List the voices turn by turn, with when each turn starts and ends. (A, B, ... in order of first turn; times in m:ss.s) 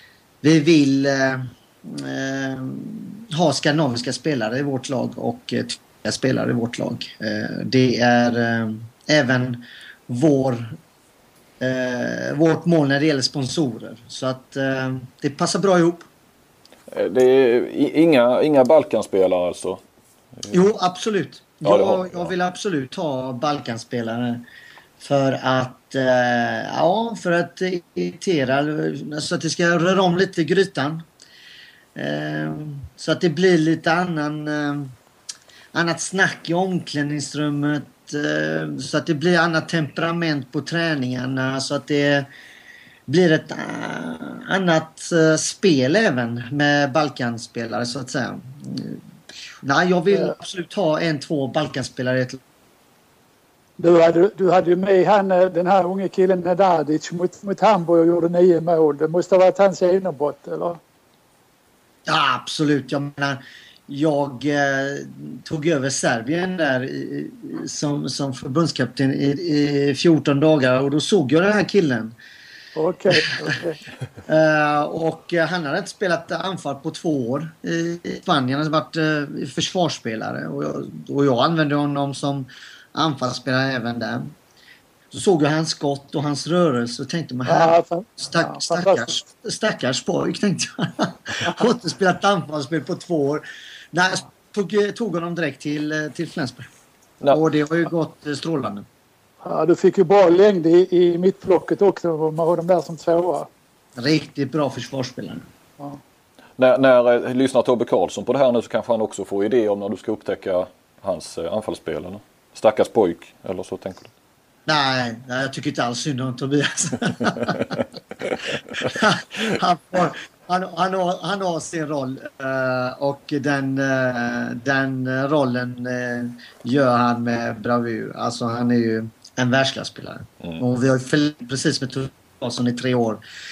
0:00.4-0:10.8 A
0:11.6-0:16.1 A
0:16.9-0:19.8 B
0:20.5-0:24.4 A
0:21.6-0:22.3 B
0:25.0-0:31.0 A
0:31.9-0:34.9 A
0:35.7-0:42.3 A
0:43.1-0:49.0 A
0:49.6-0:52.4 A
0:53.8-1:00.8 C
1:02.1-1:12.1 A
1:12.8-1:13.8 C
1:14.2-1:24.3 A
1:25.1-1:36.7 A
1:27.4-1:29.1 C
1:37.3-1:38.9 A
1:39.4-1:43.5 C
1:44.0-1:45.5 A
1:46.6-1:54.1 B
1:54.6-1:57.8 A
1:58.8-2:13.2 A